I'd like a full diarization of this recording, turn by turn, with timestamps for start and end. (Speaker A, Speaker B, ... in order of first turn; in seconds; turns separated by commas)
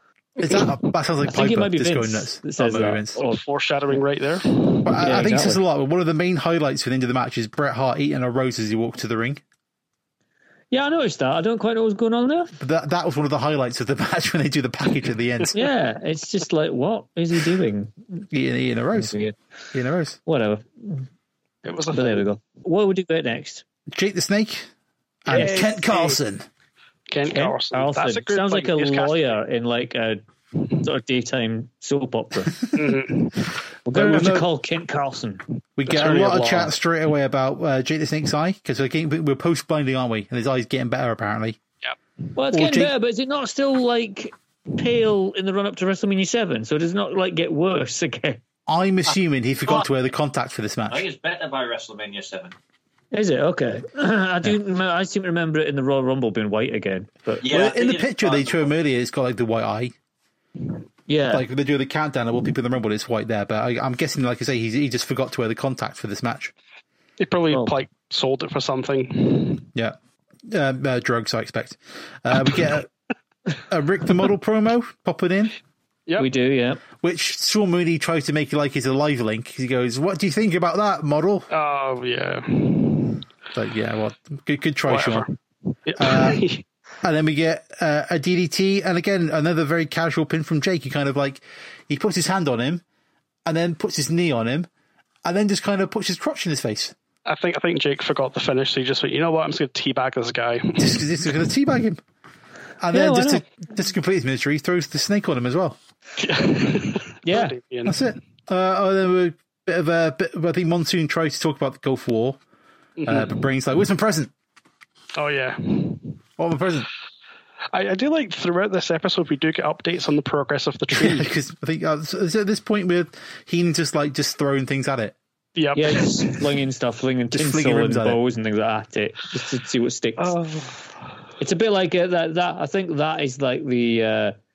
Speaker A: 0.4-3.2, Speaker B: 1.3-3.4, Speaker C: 3.1-4.9, Speaker A: 4.8-9.4, Speaker B: 5.0-5.6, Speaker B: 10.7-12.5, Speaker A: 12.6-15.6, Speaker B: 15.5-18.2, Speaker A: 18.3-19.2, Speaker B: 18.9-19.4, Speaker A: 19.7-20.2, Speaker B: 20.3-21.1, Speaker C: 21.6-22.3, Speaker B: 21.9-23.6, Speaker A: 23.9-24.7, Speaker A: 25.2-26.5, Speaker B: 25.3-25.6, Speaker C: 25.3-26.2, Speaker C: 27.1-29.3, Speaker B: 27.3-32.7, Speaker C: 32.8-33.3, Speaker B: 33.9-35.4, Speaker A: 33.9-34.5, Speaker A: 35.8-41.6, Speaker C: 35.9-36.7, Speaker B: 42.4-48.4, Speaker A: 42.5-42.9, Speaker A: 48.7-51.1, Speaker D: 50.9-52.5, Speaker B: 53.1-57.4, Speaker D: 57.4-58.7, Speaker A: 57.4-60.0, Speaker B: 61.1-61.5, Speaker A: 61.3-66.5, Speaker C: 67.2-69.7, Speaker A: 70.5-72.9, Speaker A: 73.7-75.6, Speaker B: 76.2-76.8, Speaker A: 77.0-81.5, Speaker C: 81.5-83.2, Speaker A: 83.5-85.3, Speaker C: 84.9-86.6, Speaker A: 86.0-86.5, Speaker A: 87.0-92.8, Speaker A: 93.5-94.7, Speaker A: 95.2-96.9, Speaker C: 97.3-101.0, Speaker A: 100.8-102.0, Speaker A: 102.8-105.8, Speaker B: 102.9-103.5, Speaker C: 106.2-108.0, Speaker B: 107.2-107.5, Speaker A: 107.8-112.4, Speaker C: 113.0-113.5, Speaker A: 113.1-114.3, Speaker C: 115.2-116.2, Speaker A: 116.4-116.9, Speaker C: 117.7-121.3, Speaker A: 120.9-125.2, Speaker C: 125.6-126.3, Speaker B: 125.8-130.3, Speaker A: 127.3-128.2, Speaker C: 130.2-130.9, Speaker B: 131.4-134.3